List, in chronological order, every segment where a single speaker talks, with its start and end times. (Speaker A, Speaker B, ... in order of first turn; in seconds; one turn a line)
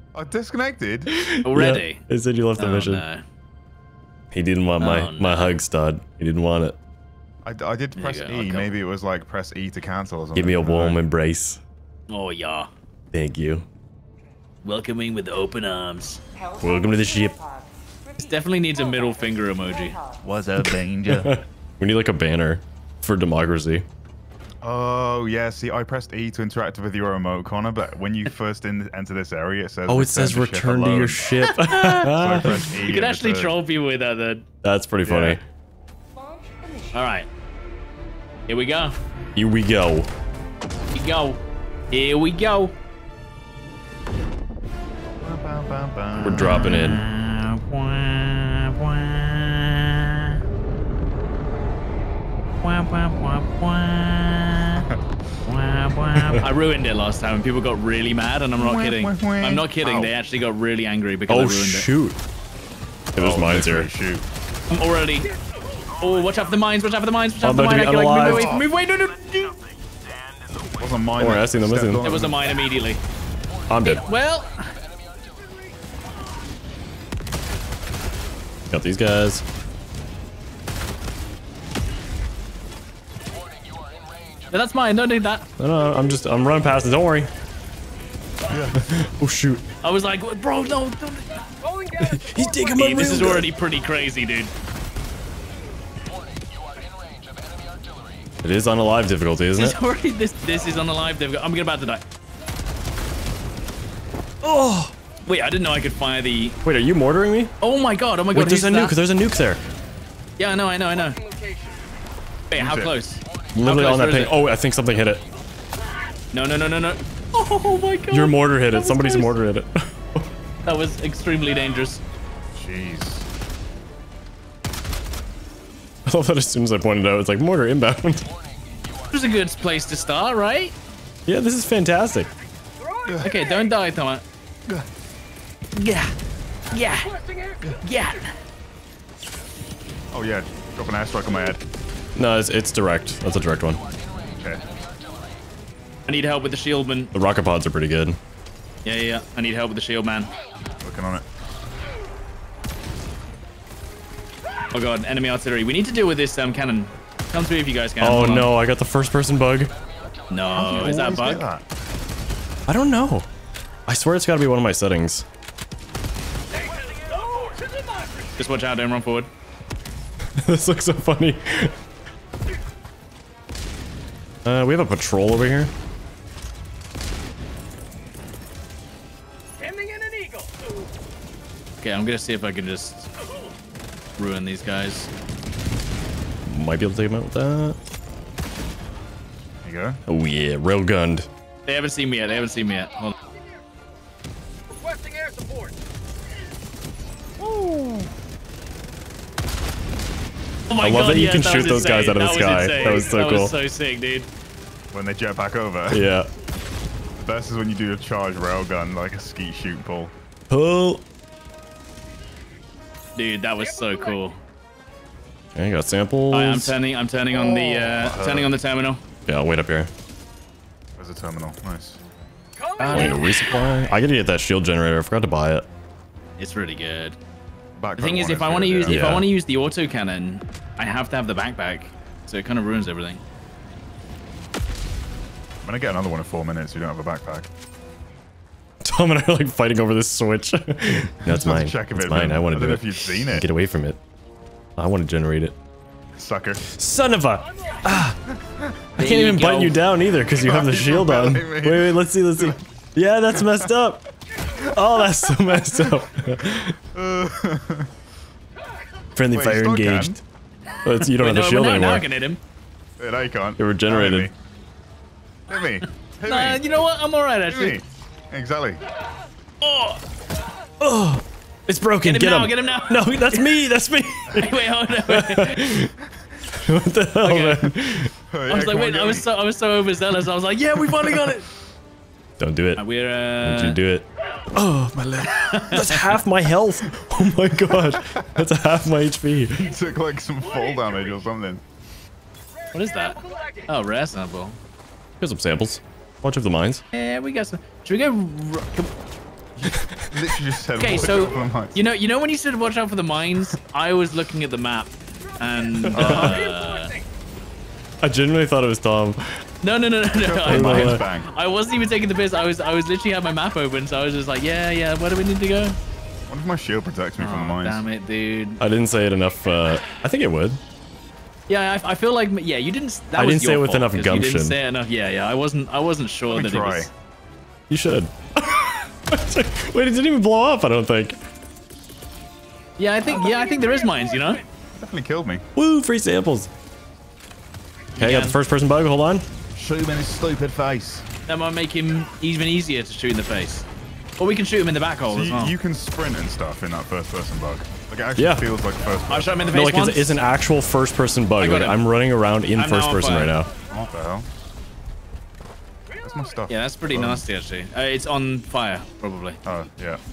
Speaker A: 0.1-1.1
Speaker B: 1.1-3.0
Speaker C: 1.4-2.0
Speaker C: 2.6-3.2
Speaker B: 4.3-6.8
Speaker C: 4.8-5.5
Speaker A: 7.4-11.0
Speaker C: 8.0-8.7
Speaker B: 10.3-11.6
Speaker C: 12.1-12.7
Speaker B: 13.1-13.6
Speaker C: 14.6-16.2
Speaker B: 16.6-17.4
Speaker C: 18.2-20.0
Speaker A: 20.2-21.3
Speaker B: 20.6-23.9
Speaker A: 24.6-31.3
Speaker B: 29.9-32.6
Speaker C: 31.4-34.5
Speaker A: 32.1-33.6
Speaker B: 34.6-35.4
Speaker A: 35.0-35.4
Speaker C: 36.9-37.3
Speaker C: 38.5-39.0
Speaker B: 39.3-40.1
Speaker C: 40.9-41.4
Speaker C: 41.9-42.7
Speaker A: 45.2-46.8
Speaker B: 46.2-47.0
Speaker C: 46.4-50.4
Speaker C: 52.6-54.9
Speaker C: 55.5-61.9
Speaker B: 56.1-56.4
Speaker A: 58.6-60.1
Speaker B: 61.3-62.2
Speaker B: 63.1-63.9
Speaker A: 63.2-64.2
Speaker C: 64.7-65.3
Speaker C: 66.0-69.6
Speaker B: 67.4-68.6
Speaker A: 68.2-68.6
Speaker A: 70.8-72.5
Speaker B: 71.2-72.0
Speaker C: 72.0-73.0
Speaker B: 73.7-74.0
Speaker C: 73.8-74.7
Speaker B: 78.7-79.4
Speaker C: 84.5-85.5
Speaker B: 85.6-87.3
Speaker A: 88.5-88.8
Speaker B: 88.7-89.6
Speaker C: 89.8-91.5
Speaker B: 92.0-93.5
Speaker C: 92.7-94.5
Speaker B: 98.4-99.8
Speaker C: 99.6-102.0
Speaker B: 104.4-104.9
Speaker C: 105.2-106.6
Speaker B: 106.6-107.5
Speaker C: 107.6-109.0
Speaker B: 108.3-109.6
Speaker C: 110.4-111.2
Speaker C: 112.5-114.3
Speaker A: 112.6-112.9
Speaker B: 113.5-115.2
Speaker C: 116.3-119.4
Speaker B: 118.1-120.3
Speaker C: 120.7-122.0
Speaker A: 122.5-123.3
Speaker B: 126.0-128.3
Speaker C: 129.1-130.8
Speaker B: 131.2-132.3
Speaker A: 133.1-133.3
Speaker C: 133.2-134.2
Speaker C: 135.8-136.1
Speaker C: 136.7-137.1
Speaker C: 137.8-138.4
Speaker A: 140.1-141.6
Speaker B: 142.2-143.8
Speaker C: 146.1-147.1
Speaker B: 147.1-148.2
Speaker C: 148.8-150.3
Speaker A: 150.8-151.2
Speaker C: 154.7-158.5
Speaker B: 158.0-159.7
Speaker C: 160.3-161.4
Speaker A: 160.5-161.6
Speaker B: 162.7-163.3
Speaker B: 163.9-165.2
Speaker C: 168.4-169.3
Speaker B: 170.4-171.8
Speaker B: 174.4-175.7
Speaker C: 181.8-183.1
Speaker C: 184.2-185.1
Speaker B: 186.4-187.8
Speaker A: 189.6-190.0
Speaker B: 190.1-191.3
Speaker C: 191.7-193.1
Speaker A: 197.4-198.1
Speaker C: 200.7-204.3
Speaker B: 200.8-203.6
Speaker A: 204.9-206.1
Speaker B: 205.9-206.3
Speaker A: 207.2-210.1
Speaker B: 210.5-211.0
Speaker C: 213.2-214.4
Speaker B: 215.6-216.8
Speaker C: 216.3-219.0
Speaker A: 217.3-218.5
Speaker B: 219.3-219.9
Speaker A: 221.0-222.0
Speaker C: 222.8-223.5
Speaker B: 222.9-225.7
Speaker C: 226.4-227.2
Speaker A: 227.8-229.2
Speaker C: 228.0-233.2
Speaker B: 228.9-229.3
Speaker A: 235.6-237.5
Speaker B: 238.8-244.0
Speaker A: 241.2-243.5
Speaker B: 244.8-245.6
Speaker A: 246.1-246.6
Speaker B: 246.6-248.2
Speaker A: 248.3-248.8
Speaker C: 249.0-249.8
Speaker B: 249.0-256.8
Speaker A: 250.3-252.6
Speaker A: 256.4-257.9
Speaker B: 259.1-260.2
Speaker A: 259.3-260.2
Speaker B: 260.8-262.1
Speaker C: 260.9-262.4
Speaker A: 263.0-264.3
Speaker B: 263.6-264.3
Speaker A: 265.5-266.6
Speaker C: 266.2-267.8
Speaker A: 267.5-268.8
Speaker C: 269.6-270.0
Speaker B: 270.8-275.9
Speaker C: 272.0-273.5
Speaker C: 274.3-275.6
Speaker B: 276.5-278.1
Speaker C: 277.2-277.8
Speaker A: 278.3-279.2
Speaker C: 278.5-281.5
Speaker B: 282.4-282.8
Speaker C: 282.8-283.8
Speaker B: 283.4-289.6
Speaker C: 285.5-286.0
Speaker A: 287.7-288.4
Speaker A: 289.6-291.6
Speaker C: 292.7-294.6
Speaker B: 295.2-296.8
Speaker C: 296.9-298.9
Speaker A: 299.6-301.8
Speaker B: 299.8-300.0
Speaker C: 300.8-306.9
Speaker B: 305.9-306.3
Speaker A: 305.9-306.4
Speaker B: 308.0-309.4
Speaker C: 309.6-315.8
Speaker A: 310.1-311.3
Speaker B: 310.4-311.0
Speaker A: 316.3-317.9
Speaker C: 317.2-318.6
Speaker B: 318.6-320.6
Speaker C: 321.5-326.9
Speaker B: 323.1-324.6
Speaker A: 326.3-326.9
Speaker B: 327.7-331.2
Speaker C: 332.8-334.4
Speaker A: 334.8-335.4
Speaker B: 335.6-336.5
Speaker C: 337.9-338.4
Speaker B: 338.0-339.2
Speaker A: 339.5-341.1
Speaker C: 341.3-343.6
Speaker C: 344.2-345.5
Speaker A: 345.1-349.7
Speaker B: 348.2-348.5
Speaker C: 349.1-350.2
Speaker B: 349.5-353.5
Speaker C: 351.4-351.8
Speaker C: 352.6-353.3
Speaker A: 353.7-354.3
Speaker A: 356.0-357.2
Speaker C: 356.5-359.4
Speaker A: 359.4-360.0